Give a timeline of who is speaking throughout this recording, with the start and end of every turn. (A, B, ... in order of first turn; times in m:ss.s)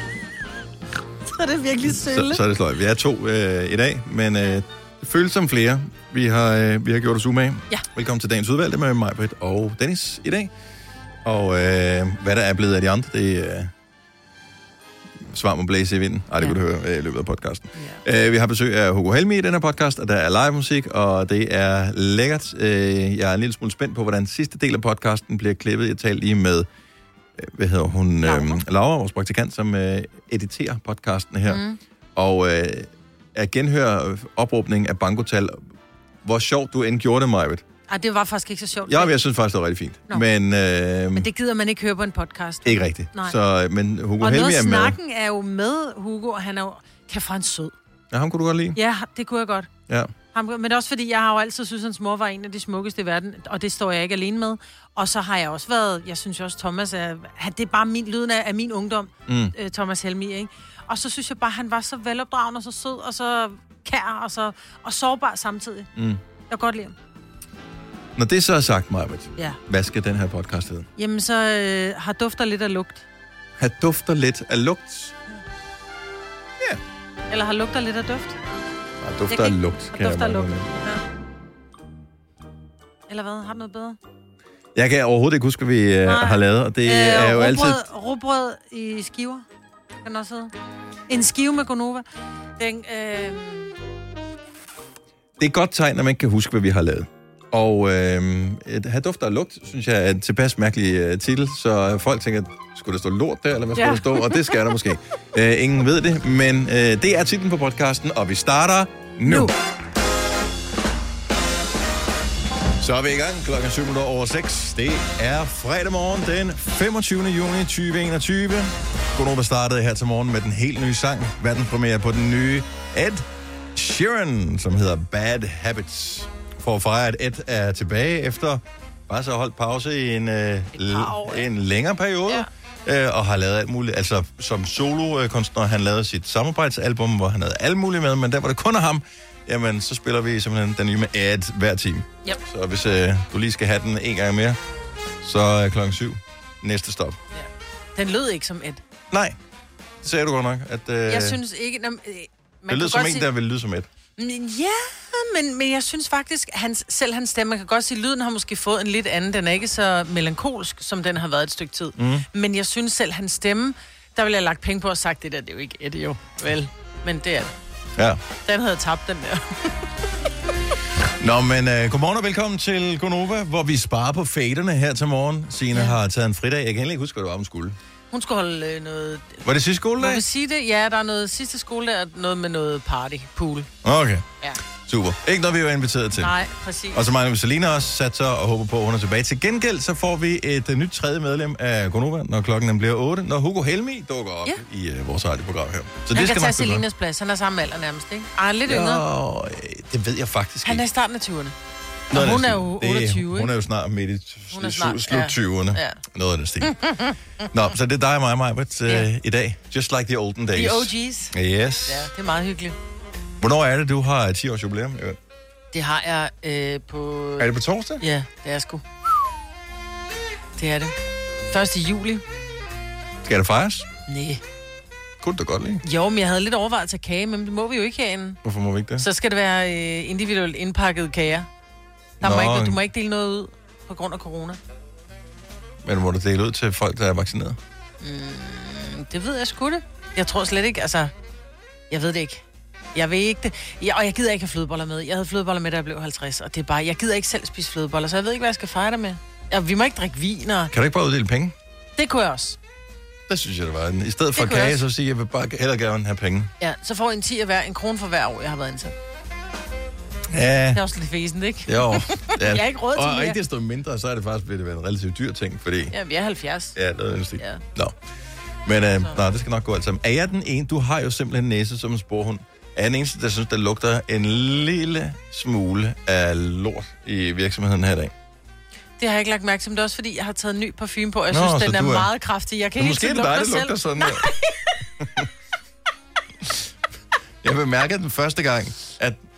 0:01.3-0:02.4 A
0:01.8-0:10.5 B
0:11.2-0:13.7 B
0:15.2-0:26.7 B
0:17.8-0:18.0 A
0:27.4-0:31.6 B
0:28.2-0:28.6 A
0:31.5-0:31.8 A
0:32.1-0:35.6 B
0:36.2-0:37.6 B
0:37.9-0:39.1 A
0:38.9-0:41.3 B
0:41.1-0:43.3 A
0:42.6-0:45.0 B
0:44.2-0:47.7 A
0:48.1-0:48.8 B
0:48.7-0:49.7 A
0:50.3-1:05.9 A
0:59.3-0:59.5 B
1:05.9-1:06.2 B
1:06.5-1:06.9 A
1:08.2-1:10.9 B
1:11.0-1:13.0 A
1:13.6-1:15.1 B
1:17.3-1:18.4 A
1:19.0-1:20.7 B
1:19.3-1:21.0 A
1:23.1-1:24.0 A
1:24.7-1:27.8 B
1:26.0-1:29.4 A
1:30.0-1:30.5 A
1:31.1-1:32.0 A
1:32.6-1:33.7 A
1:35.4-1:49.5 B
1:43.8-1:44.6 A
1:49.3-1:49.5 A
1:52.8-2:24.6 B
2:10.7-2:11.5 A
2:25.2-2:27.2 B
2:27.3-2:28.8 A
2:29.1-2:29.4 B
2:30.0-2:31.4 B
2:31.1-2:33.3 A
2:32.7-2:33.9 B
2:34.2-2:47.5 A
2:42.0-2:42.2 B
2:48.4-2:49.9 A
2:51.2-2:57.8 B
2:58.1-2:59.4 A
2:59.4-3:00.2 B
3:00.0-3:03.7 A
3:03.8-3:04.3 B
3:04.8-3:06.3 B
3:06.2-3:07.0 A
3:06.9-3:16.8 B
3:16.1-3:19.0 A
3:18.6-3:20.8 B
3:20.6-3:21.6 A
3:22.1-3:23.5 A
3:22.1-3:26.8 B
3:24.5-3:26.0 A
3:26.6-3:27.2 A
3:27.5-3:32.1 B
3:30.5-3:31.3 A
3:31.8-3:32.8 A
3:33.4-3:35.2 B
3:35.7-3:38.8 A
3:37.4-3:38.0 B
3:40.6-3:40.9 A
3:41.5-3:42.2 A
3:43.2-3:43.9 B
3:44.1-3:44.4 A
3:45.2-3:45.8 B
3:45.8-3:48.4 A
3:48.4-3:49.1 B
3:49.0-3:51.5 A
3:52.2-3:52.8 B
3:52.2-3:54.6 A
3:55.8-3:57.6 B
3:58.0-4:01.1 A
4:01.9-4:10.7 A
4:10.7-4:11.5 B
4:12.0-4:12.6 A
4:13.3-4:16.5 B
4:14.3-4:14.8 A
4:16.6-4:18.9 A
4:20.3-4:20.8 B
4:20.7-4:23.4 A
4:21.6-4:25.9 B
4:25.9-4:26.8 A
4:26.7-4:27.9 B
4:27.4-4:27.6 A
4:28.6-4:38.1 B
4:39.0-4:44.8 A
4:41.3-4:42.1 B
4:42.8-4:44.3 B
4:45.0-4:45.3 B
4:47.4-4:49.2 B